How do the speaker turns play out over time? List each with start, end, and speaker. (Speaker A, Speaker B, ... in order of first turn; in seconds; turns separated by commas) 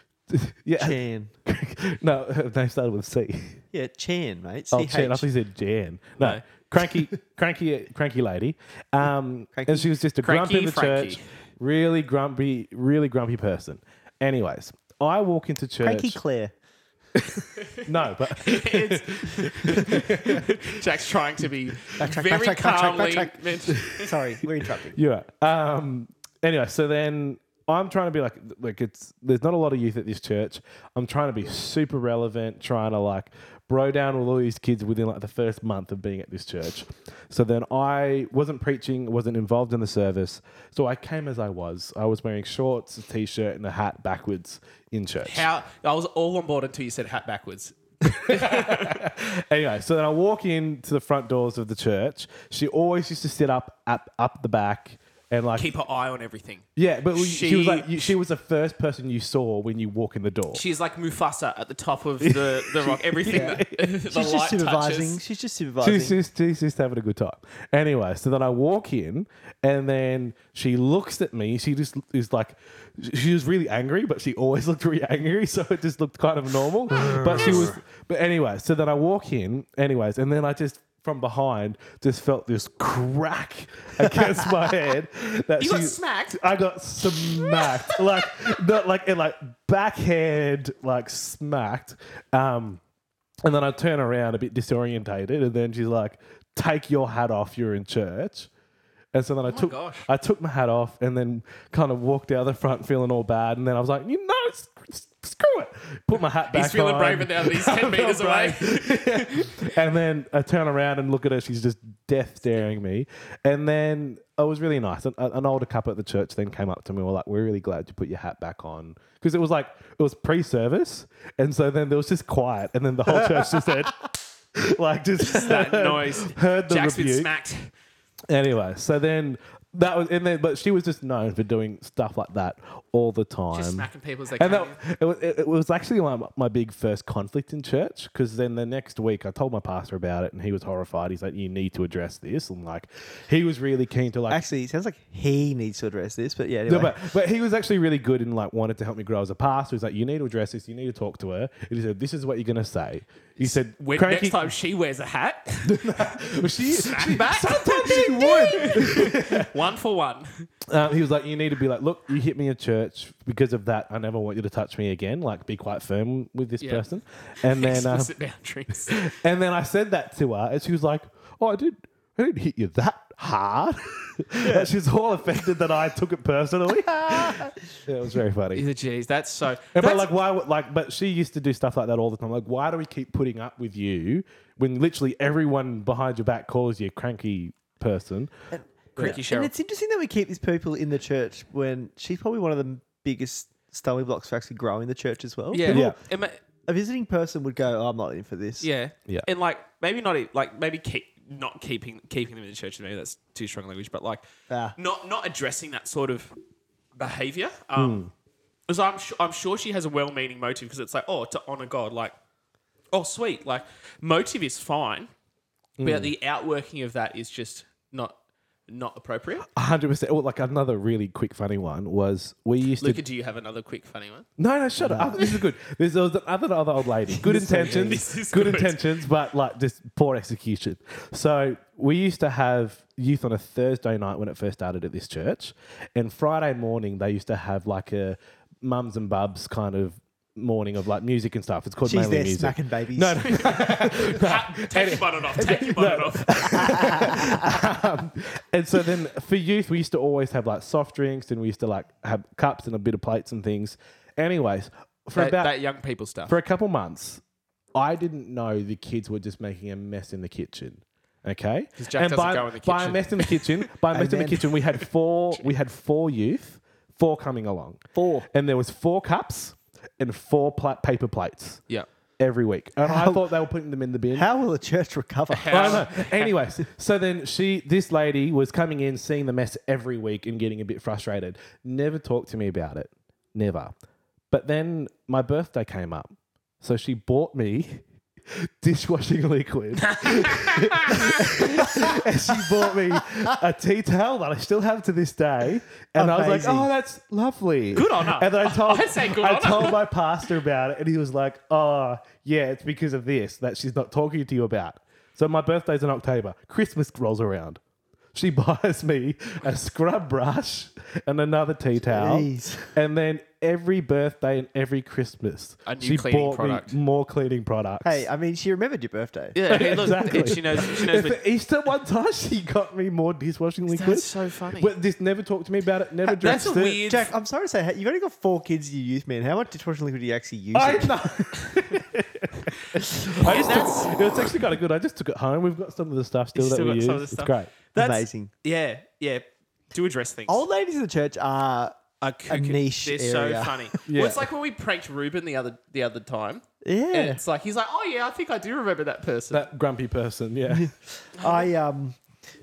Speaker A: 0.3-3.6, Speaker B: 0.8-1.3, Speaker B: 3.7-5.3, Speaker A: 4.7-16.2, Speaker C: 6.2-6.4, Speaker B: 9.5-9.9, Speaker C: 10.2-11.2, Speaker B: 15.8-16.5, Speaker A: 17.2-20.5, Speaker C: 18.4-24.1, Speaker B: 22.0-25.0, Speaker A: 24.9-45.5, Speaker C: 45.2-49.0, Speaker A: 48.1-55.7, Speaker C: 55.5-58.1, Speaker A: 56.8-60.6, Speaker C: 60.5-65.2, Speaker A: 62.2-63.8, Speaker B: 63.3-66.2, Speaker A: 65.8-92.8, Speaker B: 76.9-77.7, Speaker C: 77.3-77.7, Speaker C: 85.6-86.5, Speaker C: 87.1-88.0, Speaker A: 93.4-98.5, Speaker A: 99.1-124.0, Speaker C: 99.5-100.1, Speaker C: 106.5-109.5, Speaker A: 124.5-127.3, Speaker C: 125.2-127.7, Speaker A: 128.3-144.4, Speaker C: 133.5-134.8, Speaker B: 144.3-147.0, Speaker A: 146.7-154.5, Speaker C: 153.4-155.9, Speaker A: 155.7-159.5, Speaker C: 156.6-160.4, Speaker A: 160.7-168.1, Speaker C: 166.6-166.8, Speaker C: 167.4-169.1, Speaker A: 168.9-178.6, Speaker B: 177.1-177.5, Speaker C: 178.5-180.1, Speaker A: 179.7-188.3, Speaker B: 188.5-195.9, Speaker C: 189.0-189.5, Speaker C: 195.5-196.4, Speaker A: 195.7-196.0, Speaker B: 196.7-198.7, Speaker C: 198.6-204.2, Speaker B: 204.5-204.8, Speaker C: 204.8-206.3, Speaker C: 206.9-208.1, Speaker A: 207.8-208.1, Speaker C: 208.7-212.1, Speaker C: 212.9-215.1, Speaker A: 215.8-216.1, Speaker C: 215.8-218.2, Speaker C: 218.7-219.4, Speaker A: 219.5-223.0, Speaker C: 222.8-224.3, Speaker A: 224.4-255.5, Speaker B: 224.8-225.2, Speaker C: 227.2-228.8, Speaker B: 227.2-228.0, Speaker B: 241.8-243.6, Speaker C: 243.3-246.8, Speaker B: 246.4-247.6, Speaker C: 255.1-256.3, Speaker A: 256.2-257.2, Speaker A: 257.7-271.6, Speaker C: 261.8-263.5, Speaker B: 263.9-264.4, Speaker B: 267.9-268.2, Speaker A: 272.2-274.3, Speaker B: 272.8-273.3, Speaker B: 274.1-275.8, Speaker C: 275.3-276.3, Speaker A: 275.5-283.7, Speaker A: 284.3-307.6, Speaker C: 289.8-291.7, Speaker B: 296.0-296.7, Speaker C: 297.7-299.8, Speaker A: 308.1-318.1, Speaker B: 311.8-312.7, Speaker C: 315.6-316.8, Speaker B: 317.8-320.3, Speaker C: 319.3-321.2, Speaker A: 319.5-326.9, Speaker C: 323.7-324.7, Speaker B: 326.1-331.2, Speaker C: 326.2-327.1, Speaker A: 330.5-337.5, Speaker C: 333.2-334.0, Speaker C: 336.3-340.4, Speaker B: 337.8-338.3, Speaker B: 340.3-341.7, Speaker C: 342.0-349.4, Speaker B: 342.3-343.7, Speaker A: 343.9-344.3, Speaker B: 346.6-347.2, Speaker A: 349.3-350.7, Speaker B: 350.5-352.0, Speaker C: 351.2-351.5